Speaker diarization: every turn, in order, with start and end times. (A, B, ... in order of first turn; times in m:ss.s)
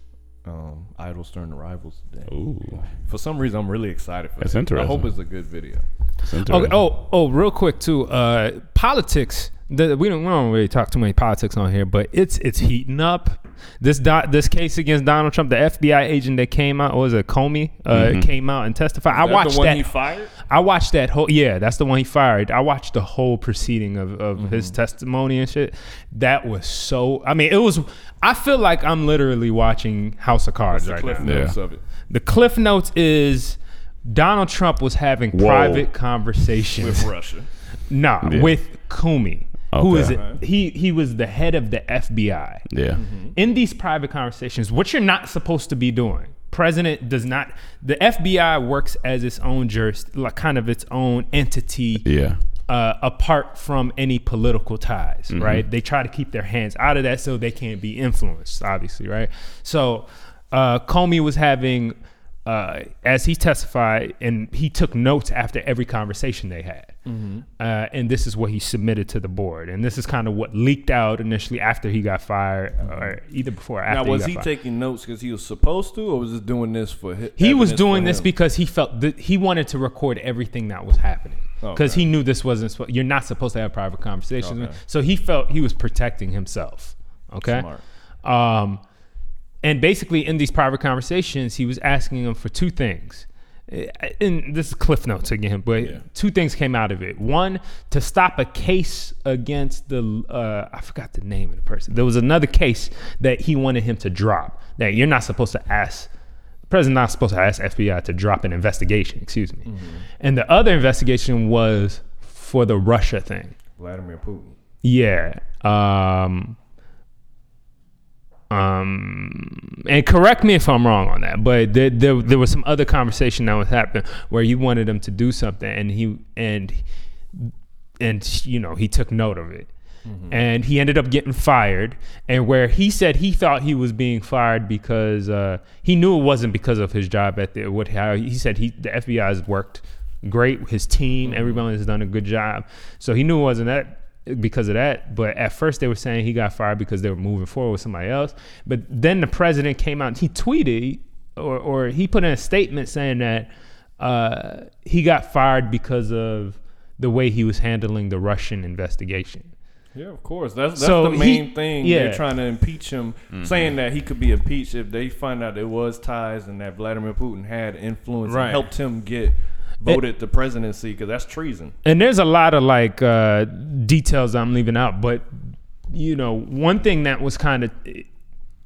0:00.4-0:02.3 A
0:02.3-0:02.9 B
0:03.0-0:05.8 A
0:04.4-0:05.1 B
0:06.2-0:06.8 B
0:06.4-0:19.9 C
0:17.9-0:18.3 B
0:19.1-0:20.3 A
0:20.4-0:31.4 C
0:24.4-0:24.7 A
0:30.7-0:31.8 A
0:31.2-0:31.5 B
0:32.1-0:37.1 C
0:35.3-0:35.9 B
0:36.8-0:37.5 A
0:37.9-0:42.6 C
0:38.2-0:38.6 B
0:39.7-0:40.2 B
0:40.0-0:40.4 A
0:42.7-0:43.0 B
0:43.0-0:43.3 A
0:43.3-0:52.0 C
0:52.0-0:52.4 B
0:52.7-1:06.9 C
0:55.3-0:55.6 B
1:07.0-1:07.4 A
1:07.6-1:14.5 C
1:12.8-1:13.1 A
1:13.9-1:18.3 A
1:17.4-1:27.6 C
1:21.6-1:22.0 A
1:24.4-1:24.8 A
1:27.4-1:27.8 A
1:28.2-1:28.8 C
1:29.6-1:46.1 C
1:46.7-1:49.7 C
1:49.6-1:50.0 A
1:50.2-1:53.5 C
1:53.8-1:54.6 A
1:54.8-1:56.6 C
1:58.5-2:06.8 C
2:07.3-2:09.7 C
2:10.0-2:10.4 A
2:10.3-2:39.5 C
2:21.2-2:21.6 A
2:39.9-2:51.7 A
2:40.8-2:42.2 C
2:43.3-2:43.7 B
2:48.2-2:48.6 C
2:51.8-2:55.3 C
2:55.9-2:58.1 C